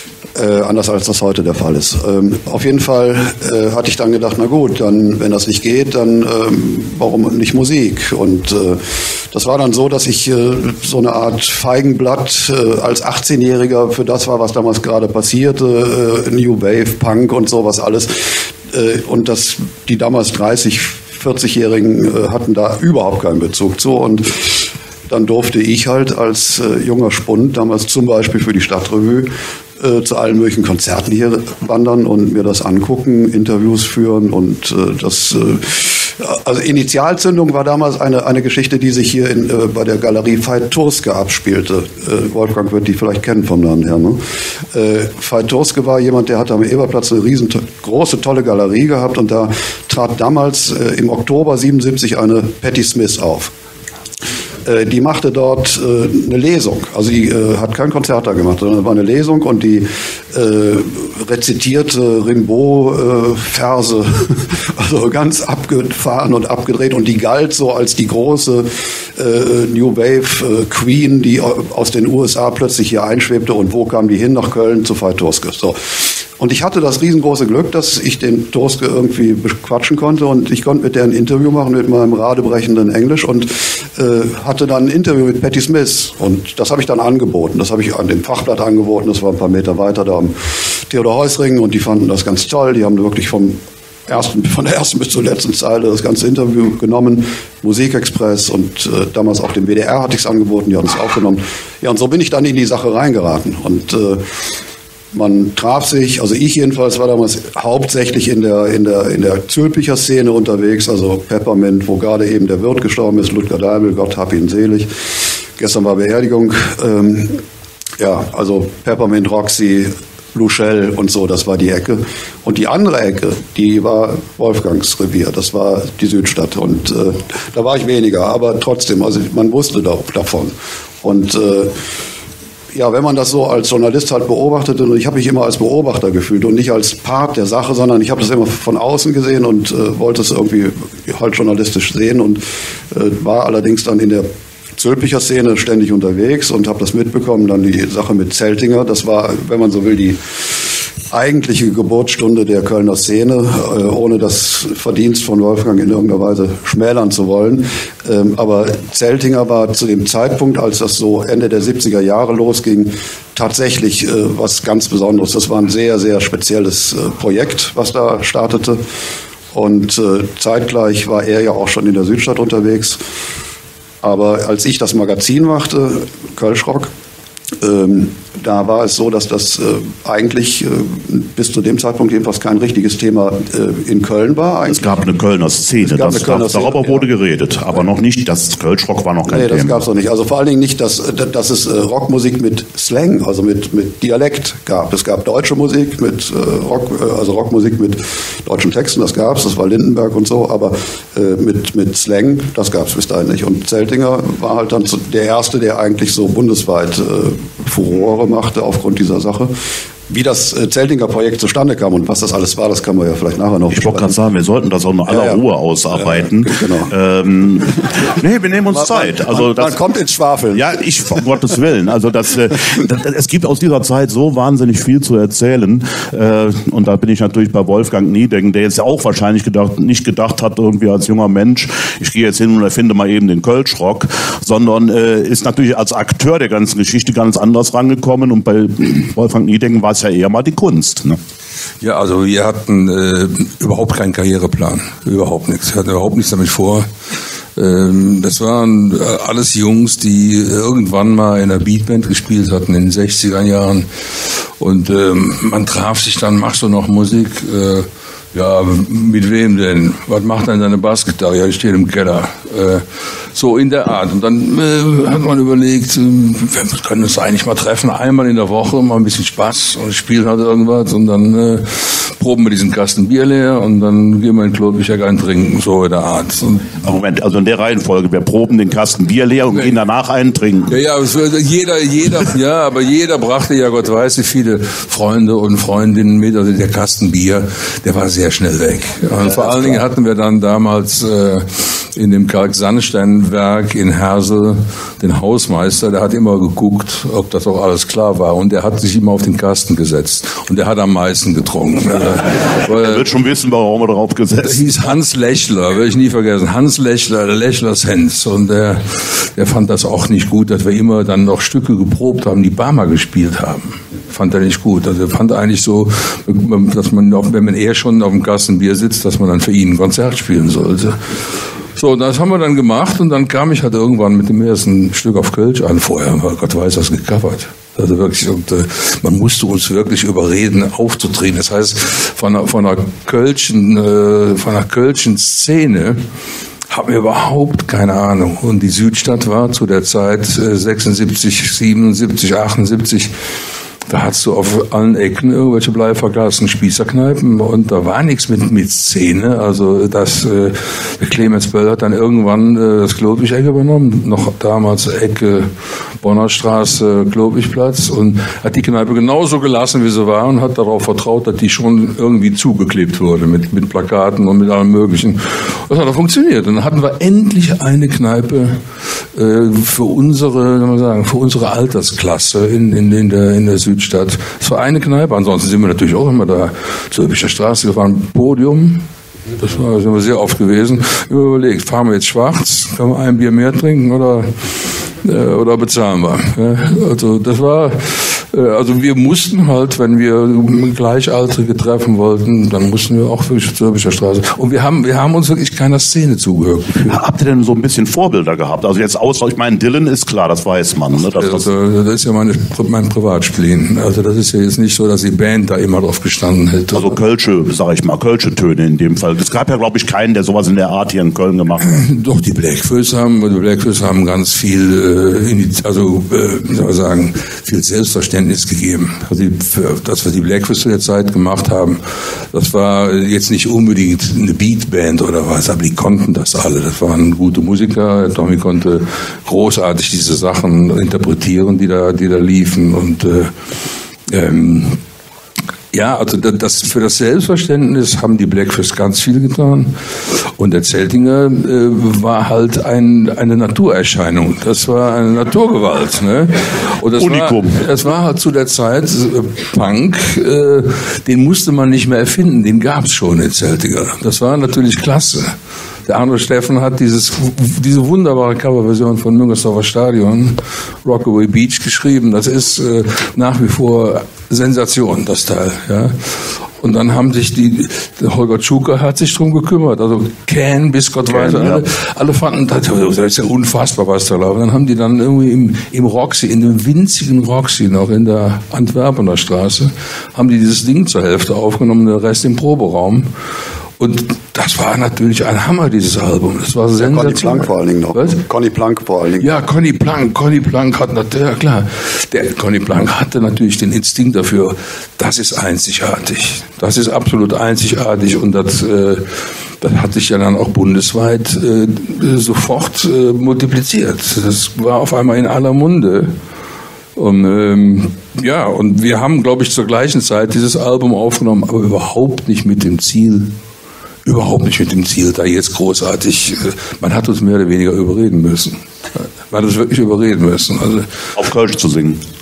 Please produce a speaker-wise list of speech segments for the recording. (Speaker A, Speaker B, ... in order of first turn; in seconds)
Speaker A: 0.3-44.2, 44.7-53.5, 54.6-104.2, 105.1-114.9, 115.6-117.4, 118.0-131.8, 132.7-150.2, 151.1-168.8, 169.5-173.0, 174.0-176.9, 177.6-185.0, 185.8-187.1, 189.3-209.5, 210.1-214.1, 215.1-215.4, 215.9-216.9, 218.7-221.2, 486.8-489.3
Speaker B: 184.7-189.8, 213.7-219.8, 220.5-241.2, 276.8-280.7, 302.7-304.7, 396.8-401.5, 406.7-411.7, 447.0-447.6, 471.1-471.6, 521.1-522.0
Speaker C: 241.8-246.9, 247.6-253.9, 254.6-276.7, 280.7-303.0, 304.4-321.0, 321.7-336.0, 336.7-343.1, 343.9-368.6, 369.1-384.3, 385.0-397.0, 401.1-407.0, 411.6-433.3, 434.1-434.8, 435.7-455.3, 455.9-483.1, 483.8-488.2, 489.2-499.1, 499.6-506.1, 506.9-513.4, 514.0-521.0